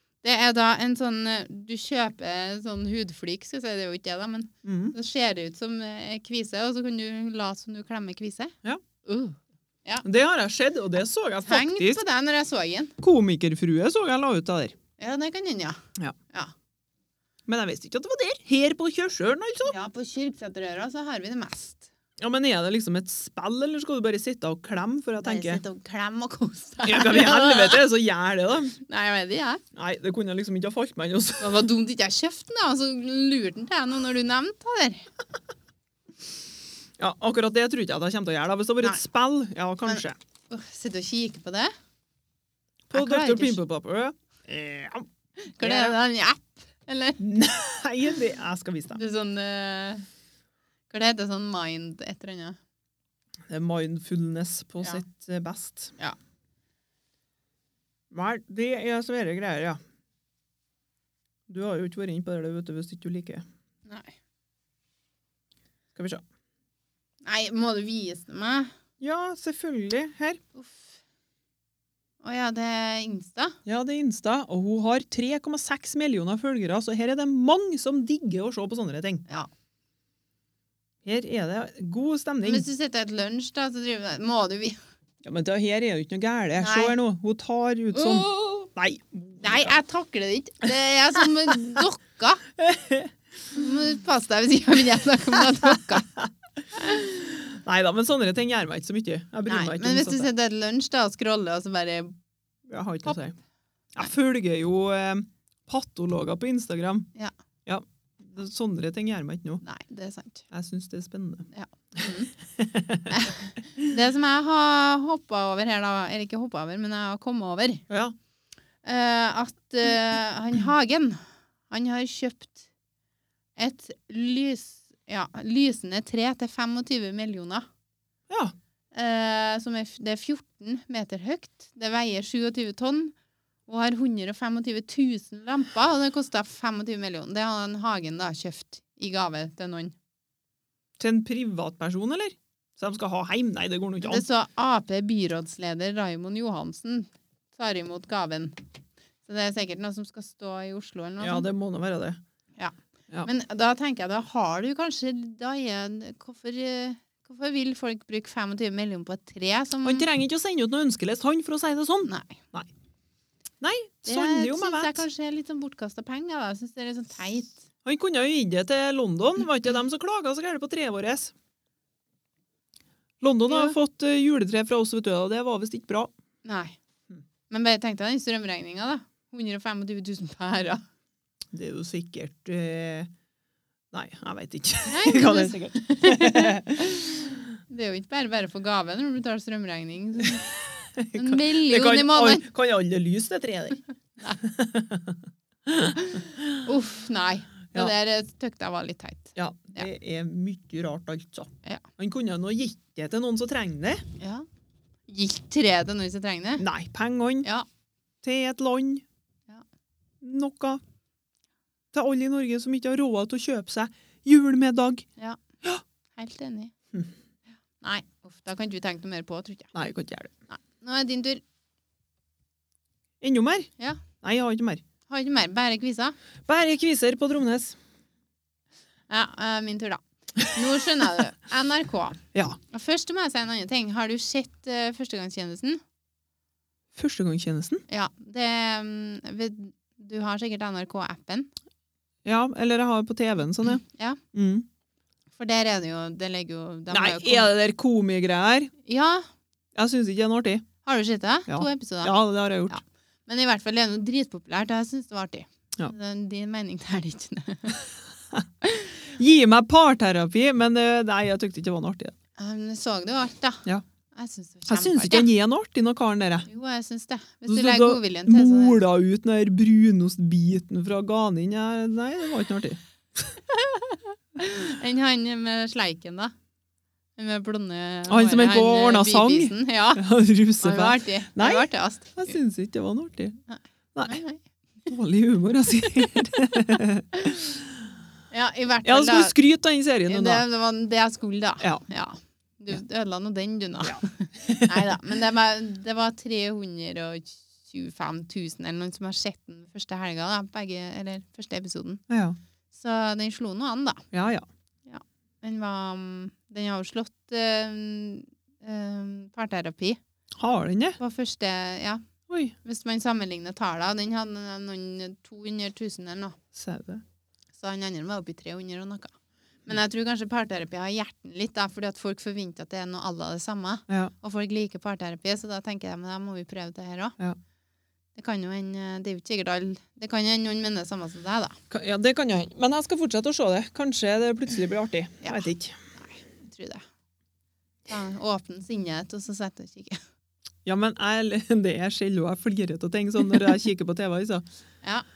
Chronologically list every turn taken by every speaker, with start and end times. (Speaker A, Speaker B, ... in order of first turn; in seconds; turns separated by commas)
Speaker A: 0.2-10.0, Speaker B: 4.6-4.9, Speaker B: 10.0-12.0, Speaker A: 11.4-12.9, Speaker B: 13.0-14.8, Speaker A: 15.0-16.5, Speaker B: 17.5-19.7, Speaker A: 19.6-21.9, Speaker B: 22.2-25.6, Speaker A: 25.2-27.8, Speaker B: 26.9-28.8, Speaker A: 28.8-29.6, Speaker B: 29.7-31.7, Speaker A: 31.4-35.1, Speaker B: 37.0-40.2, Speaker A: 39.9-41.7, Speaker B: 42.9-45.1, Speaker A: 42.9-43.6, Speaker A: 45.4-47.2, Speaker B: 45.6-46.0, Speaker B: 47.2-49.0, Speaker A: 48.9-50.0, Speaker A: 50.9-52.6, Speaker B: 53.5-55.9, Speaker B: 58.1-59.8, Speaker B: 61.5-63.4, Speaker A: 63.9-64.1, Speaker B: 65.9-66.2, Speaker A: 67.2-68.7, Speaker B: 69.0-70.4, Speaker A: 70.5-71.0, Speaker A: 72.2-73.6, Speaker B: 73.6-79.2, Speaker B: 81.0-82.7, Speaker A: 82.4-84.8, Speaker B: 85.2-89.8, Speaker A: 86.6-86.9, Speaker A: 87.9-88.7, Speaker A: 89.4-92.4, Speaker B: 92.6-93.1, Speaker A: 93.5-96.1, Speaker B: 95.6-100.3, Speaker A: 96.8-97.1, Speaker A: 99.5-102.1, Speaker B: 102.7-103.4, Speaker B: 103.9-107.1, Speaker B: 107.7-109.6, Speaker A: 109.6-110.5, Speaker B: 110.5-111.5, Speaker A: 111.5-112.3, Speaker B: 112.5-113.1, Speaker A: 113.1-117.8, Speaker B: 117.9-118.1, Speaker A: 118.8-122.6, Speaker A: 123.6-127.7, Speaker B: 128.3-128.5, Speaker A: 128.9-133.1, Speaker A: 133.7-139.9, Speaker B: 141.0-144.2, Speaker A: 144.0-148.6, Speaker A: 149.2-151.5, Speaker B: 151.2-152.2, Speaker A: 152.6-160.1, Speaker B: 159.8-162.7, Speaker A: 162.0-162.4, Speaker B: 163.6-165.0, Speaker A: 164.1-167.6, Speaker B: 167.8-171.3, Speaker B: 173.2-176.1, Speaker A: 173.5-173.8, Speaker A: 176.4-176.8, Speaker A: 177.5-180.8, Speaker B: 181.5-183.1, Speaker B: 183.9-186.9, Speaker A: 184.9-190.5, Speaker B: 190.3-193.8, Speaker A: 191.1-192.4, Speaker B: 194.4-196.6, Speaker A: 196.1-199.9, Speaker B: 199.3-204.0, Speaker A: 204.2-204.4, Speaker A: 205.1-206.6, Speaker B: 206.6-207.5, Speaker B: 208.2-209.0, Speaker B: 210.2-210.8, Speaker B: 211.9-215.1, Speaker A: 216.1-216.7, Speaker A: 217.8-219.7, Speaker B: 219.7-220.3, Speaker A: 220.5-221.4, Speaker B: 223.2-223.7, Speaker B: 224.2-224.8, Speaker A: 225.1-226.2, Speaker B: 226.4-227.8, Speaker A: 229.1-235.8, Speaker B: 236.9-237.8, Speaker A: 237.9-241.5, Speaker B: 242.2-244.7, Speaker A: 243.9-244.2, Speaker A: 245.3-247.5, Speaker B: 246.9-248.7, Speaker A: 248.8-249.3, Speaker B: 249.8-250.7, Speaker A: 250.8-252.2, Speaker B: 251.5-252.8, Speaker A: 252.7-257.8, Speaker A: 258.6-258.9, Speaker B: 259.1-262.1, Speaker A: 262.4-265.3, Speaker B: 264.7-266.5, Speaker A: 266.5-268.8, Speaker B: 267.5-272.8, Speaker A: 273.5-276.3, Speaker A: 277.1-280.0, Speaker B: 278.1-283.4, Speaker A: 280.6-282.4, Speaker A: 283.5-284.4, Speaker B: 284.9-287.5, Speaker A: 288.3-289.3, Speaker B: 288.8-290.4, Speaker A: 290.1-302.0, Speaker B: 293.8-294.9, Speaker B: 302.1-302.4, Speaker A: 302.7-304.1, Speaker B: 304.1-304.4, Speaker A: 304.9-310.0, Speaker B: 310.4-311.0, Speaker A: 311.0-312.0, Speaker B: 312.3-312.5, Speaker A: 312.6-316.4, Speaker B: 316.5-317.0, Speaker A: 317.6-319.1, Speaker A: 319.6-327.2, Speaker B: 323.9-324.1, Speaker A: 328.1-331.6, Speaker B: 331.7-335.8, Speaker A: 335.2-336.8, Speaker A: 337.9-340.0, Speaker B: 340.6-344.4